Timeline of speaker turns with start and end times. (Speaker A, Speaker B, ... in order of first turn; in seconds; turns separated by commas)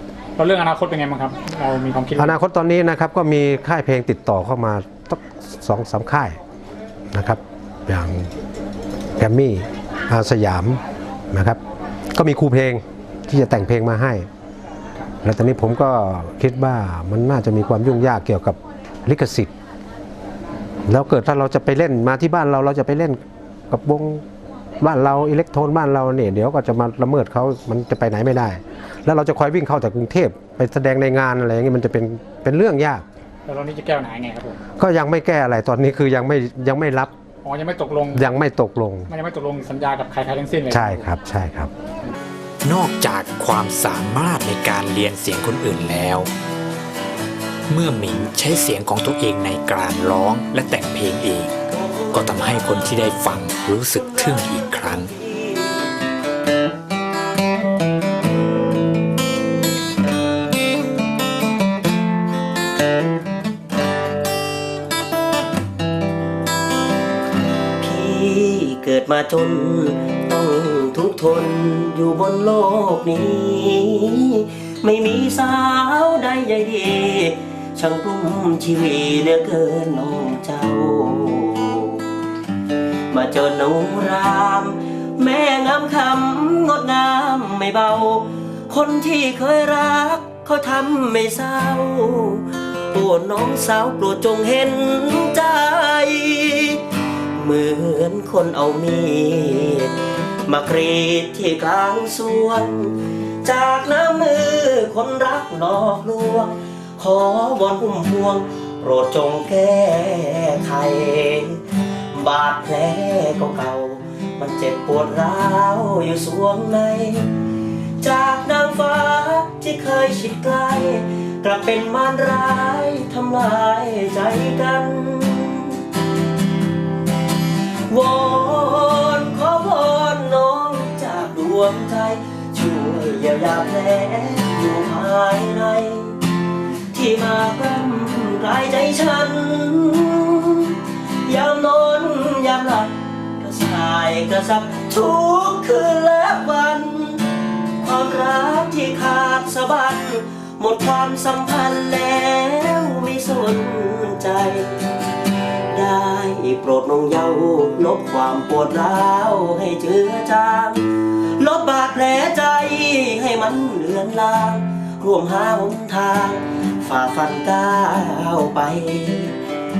Speaker A: 0.4-2.3, Speaker B: 2.1-6.4, Speaker B: 7.1-8.3, Speaker B: 9.2-10.8, Speaker B: 11.3-11.6, Speaker B: 12.2-14.3, Speaker B: 15.2-19.5, Speaker B: 20.9-23.2, Speaker B: 23.7-24.2, Speaker B: 24.8-33.0, Speaker A: 33.5-34.6, Speaker B: 34.8-37.1, Speaker A: 37.4-38.2, Speaker B: 38.1-39.1, Speaker A: 39.1-41.1, Speaker B: 40.7-41.7, Speaker C: 42.6-46.3, Speaker C: 47.7-51.5, Speaker D: 51.7-53.2, Speaker C: 52.1-55.1, Speaker D: 53.8-55.9, Speaker D: 67.8-82.0, Speaker D: 83.1-96.8, Speaker D: 97.3-99.9, Speaker D: 100.5-111.6, Speaker D: 112.1-117.3, Speaker D: 118.0-125.8, Speaker D: 127.9-136.2, Speaker D: 136.9-147.2, Speaker D: 147.8-154.7, Speaker D: 155.7-169.3